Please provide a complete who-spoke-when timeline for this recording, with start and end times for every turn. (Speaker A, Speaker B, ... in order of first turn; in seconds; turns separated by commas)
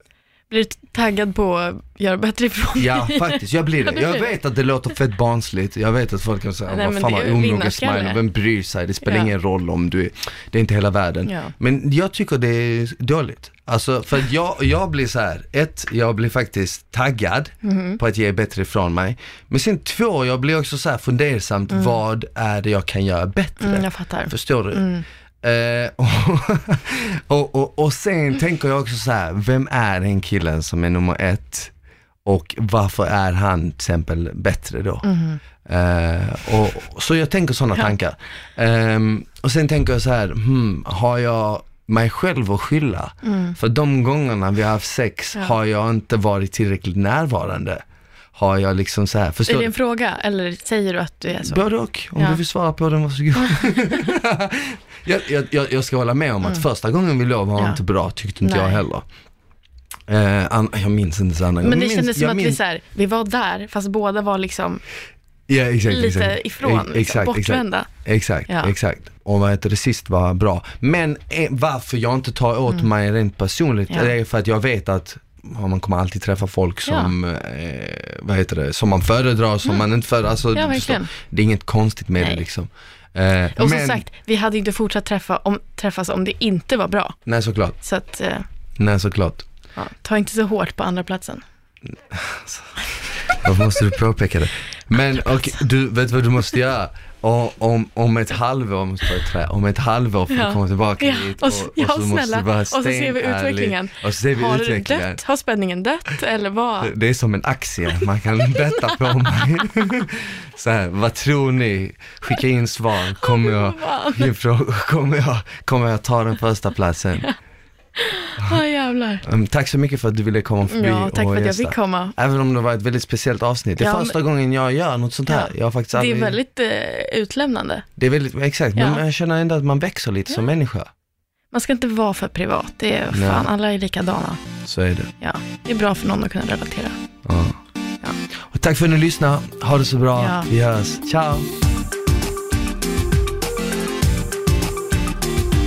Speaker A: 0.5-4.3, Speaker B: 2.8-24.9, Speaker A: 6.7-8.2, Speaker A: 9.0-9.3, Speaker A: 11.2-11.5, Speaker A: 17.6-18.0, Speaker A: 21.7-21.9, Speaker A: 23.6-25.0, Speaker B: 25.4-31.7, Speaker B: 32.2-35.0, Speaker A: 35.0-35.4, Speaker B: 35.6-47.8, Speaker A: 43.2-43.6, Speaker B: 48.3-49.7, Speaker A: 49.5-51.6, Speaker B: 51.4-59.0, Speaker A: 52.1-52.4, Speaker A: 53.4-53.7, Speaker A: 58.4-58.8, Speaker B: 60.1-62.6, Speaker A: 61.6-64.8, Speaker B: 65.5-84.0, Speaker A: 65.8-67.9, Speaker A: 76.8-77.1, Speaker A: 80.5-81.1, Speaker A: 83.5-87.2, Speaker B: 87.2-87.8, Speaker A: 87.8-88.5, Speaker B: 88.8-89.5, Speaker A: 89.8-91.4, Speaker B: 92.1-92.8, Speaker B: 93.3-105.2, Speaker A: 100.3-106.9, Speaker B: 106.8-117.3, Speaker A: 108.5-109.1, Speaker A: 113.2-114.3, Speaker A: 118.0-119.2, Speaker B: 119.2-126.4, Speaker A: 120.7-122.1, Speaker A: 123.8-124.2, Speaker A: 125.3-127.8, Speaker B: 128.0-130.9, Speaker A: 128.8-129.0, Speaker A: 131.5-134.4, Speaker B: 133.1-133.5, Speaker B: 134.6-135.1, Speaker A: 135.2-136.9, Speaker B: 137.2-137.6, Speaker B: 138.4-141.5, Speaker A: 140.1-140.5